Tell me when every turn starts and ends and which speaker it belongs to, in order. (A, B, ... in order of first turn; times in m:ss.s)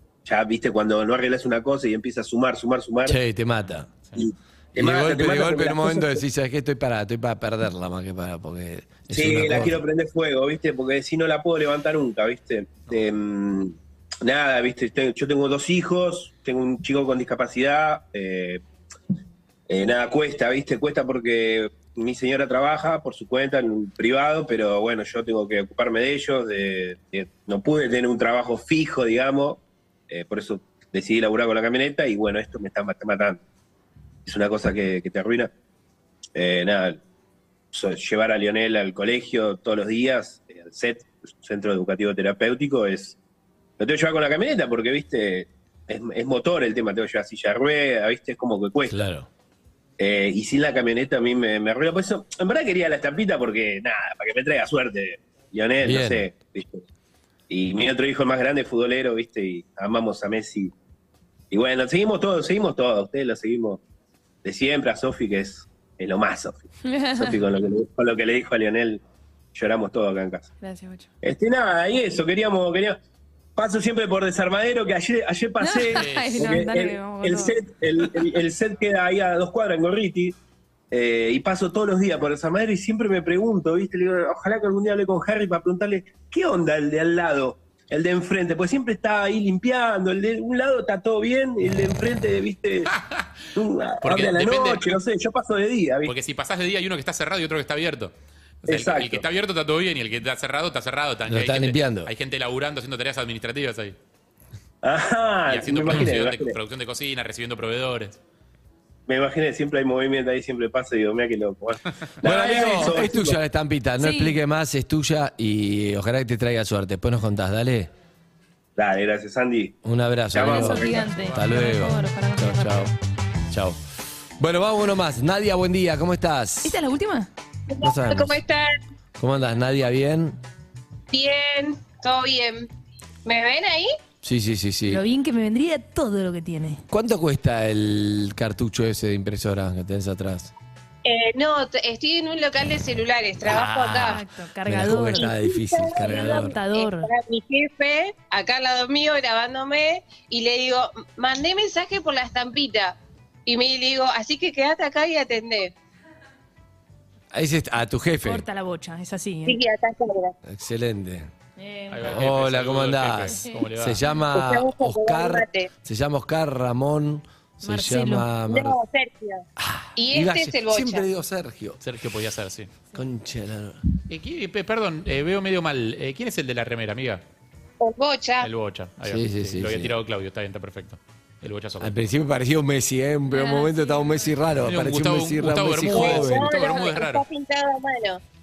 0:00.2-0:03.2 A
0:03.1-0:03.9 B
0:04.2-0:06.2 A
0:04.8-0:09.8 B
0:09.1-0:18.6 A
0:19.7-0:33.4 A
0:34.2-0:35.5 A
0:36.4-0:37.0 A
0:37.7-0:43.2 A
0:43.8-0:49.0 A
0:48.9-0:49.3 B
0:50.0-0:56.8 A
0:55.8-0:56.2 B
0:57.5-1:00.7 A
1:01.5-1:03.8 A
1:04.4-1:06.6 A
1:06.8-1:07.4 C
1:07.1-1:09.0 A
1:09.5-1:10.5 A
1:10.6-1:11.1 C
1:11.2-1:13.0 A
1:13.6-1:20.4 A
1:15.6-1:17.6 C
1:16.0-1:16.4 D
1:20.9-1:32.9 A
1:33.0-1:33.3 D
1:33.6-1:36.2 A
1:34.0-1:35.0 D
1:36.0-1:44.0 D
1:38.7-1:39.3 A
1:41.3-1:42.1 B
1:44.8-1:46.6 A
1:45.5-1:48.2 D
1:49.1-1:53.4 A
1:52.2-1:57.9 B
1:52.4-1:53.2 C
1:54.0-1:54.4 C
1:58.8-1:59.8 A
1:59.8-2:02.9 B
2:00.3-2:01.2 A
2:00.4-2:02.9 C
2:03.5-2:03.8 B
2:04.4-2:06.8 B
2:06.6-2:07.3 C
2:07.7-2:08.7 E
2:07.8-2:08.4 B
2:09.2-2:10.4 B
2:11.1-2:12.7 E
2:13.2-2:13.9 E
2:14.2-2:15.0 B
2:14.9-2:16.8 C
2:16.9-2:20.5 B
2:21.0-2:24.2 E
2:23.5-2:24.2 D
2:24.0-2:25.3 C
2:24.6-2:26.5 B
2:25.0-2:35.7 E
2:25.9-2:27.1 C
2:37.3-2:38.4 B
2:38.2-2:39.6 C
2:39.5-2:40.3 E
2:40.4-2:41.3 B
2:41.6-2:42.3 C
2:41.9-2:44.0 D
2:42.0-2:48.8 B
2:43.3-2:43.6 C
2:44.3-2:45.7 E
2:47.6-2:48.3 C
2:48.5-2:49.4 E
2:49.6-2:51.8 B
2:50.0-2:51.0 E
2:51.8-2:52.7 D
2:52.9-2:53.8 B
2:54.1-2:57.2 D
2:57.8-2:58.5 E
2:58.4-3:01.9 D
2:59.0-3:00.0 B
3:01.8-3:06.5 B
3:03.3-3:04.4 C
3:04.6-3:07.2 D
3:05.9-3:08.2 E